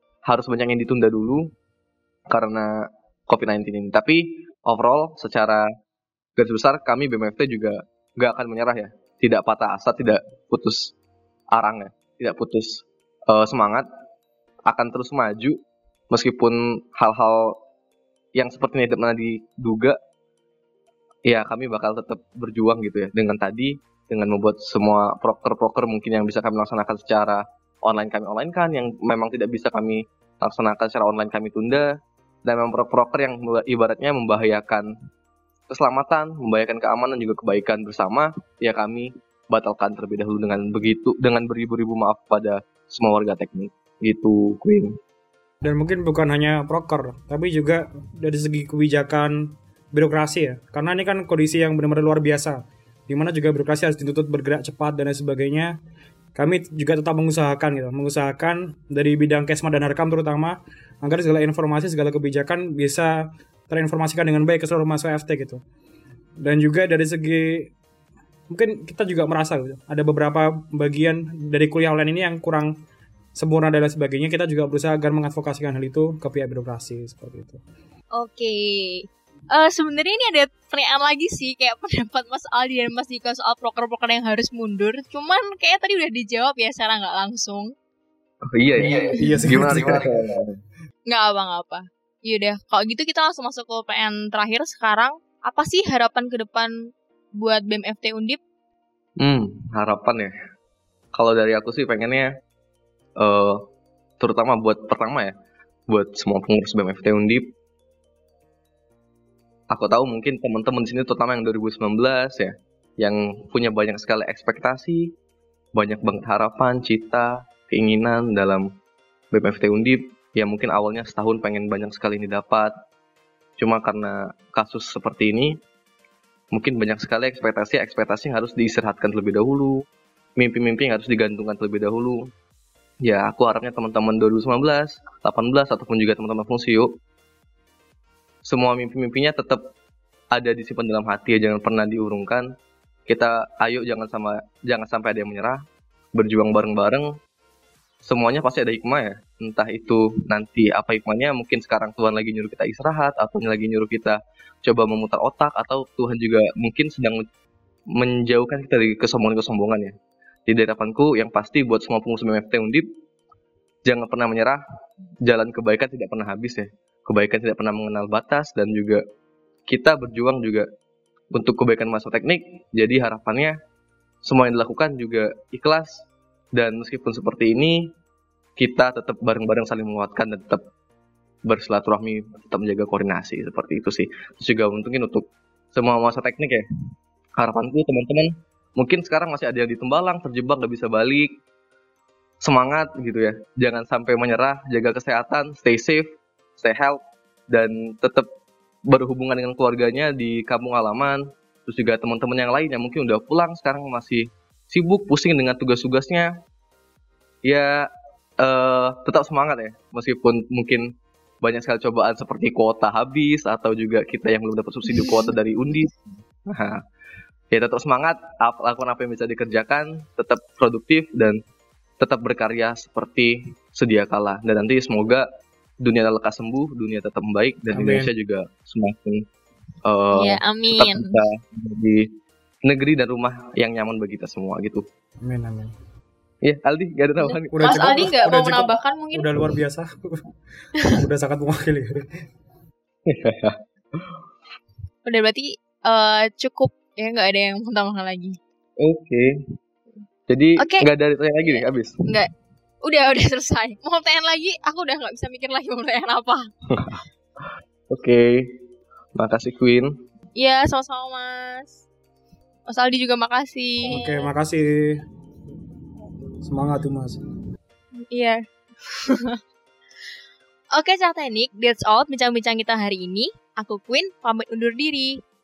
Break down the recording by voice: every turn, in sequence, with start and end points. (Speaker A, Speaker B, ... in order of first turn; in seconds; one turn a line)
Speaker A: 0.3-1.4
Speaker A: 2.3-2.7
Speaker A: 3.3-5.6
Speaker A: 6.4-10.9
Speaker A: 11.5-13.8
Speaker A: 14.7-15.6
Speaker A: 16.1-17.5
Speaker A: 18.4-19.9
Speaker A: 21.3-31.9
Speaker A: 32.5-34.9
Speaker A: 35.7-44.9
Speaker B: 45.6-55.7
Speaker B: 56.4-65.6
Speaker B: 66.4-67.7
Speaker B: 68.5-72.7
Speaker B: 73.3-77.6
Speaker C: 78.1-87.7
Speaker A: 88.5-90.5
Speaker B: 89.1-90.2
Speaker C: 91.1-96.7
Speaker C: 97.4-98.4
Speaker A: 99.2-100.3
Speaker A: 101.1-102.3
Speaker A: 103.2-103.5
Speaker A: 104.2-105.3
Speaker A: 105.9-107.5
Speaker A: 109.7-115.1
Speaker A: 115.8-118.6
Speaker A: 119.3-122.7
Speaker A: 123.6-125.5
Speaker A: 126.5-129.8
Speaker A: 130.4-132.2
Speaker A: 133.0-136.9
Speaker A: 138.4-139.6
Speaker A: 140.3-142.5
Speaker A: 143.1-145.6
Speaker A: 146.2-147.1
Speaker A: 148.0-157.2
Speaker A: 158.0-159.9
Speaker A: 160.5-162.8
Speaker A: 163.8-164.6
Speaker A: 165.2-169.0
Speaker A: 169.7-170.7
Speaker A: 171.3-173.5
Speaker A: 174.2-176.0
Speaker A: 176.6-177.9
Speaker A: 178.6-180.6
Speaker A: 181.5-186.6
Speaker A: 187.4-191.3
Speaker A: 192.4-196.1
Speaker A: 196.6-197.0
Speaker A: 197.5-198.2
Speaker A: 198.9-206.3
Speaker A: 207.4-207.8
Speaker A: 208.4-210.8
Speaker A: 211.4-215.9
Speaker A: 216.5-216.8
Speaker A: 217.5-221.4
Speaker A: 222.0-225.2
Speaker A: 225.8-229.2
Speaker B: 227.7-228.1
Speaker A: 229.8-232.0
Speaker C: 230.1-231.1
Speaker A: 232.7-234.8
Speaker B: 235.2-235.7
Speaker A: 236.4-237.8
Speaker C: 237.2-239.2
Speaker B: 237.5-239.9
Speaker B: 240.9-242.0
Speaker A: 243.1-244.2
Speaker C: 245.1-248.3
Speaker A: 248.8-249.2
Speaker A: 250.3-252.0
Speaker C: 252.8-256.4
Speaker A: 257.9-258.4
Speaker A: 259.2-259.9
Speaker C: 260.4-261.8
Speaker C: 262.7-264.3
Speaker B: 263.9-265.0
Speaker B: 266.4-267.2
Speaker C: 268.1-269.4
Speaker C: 270.7-275.1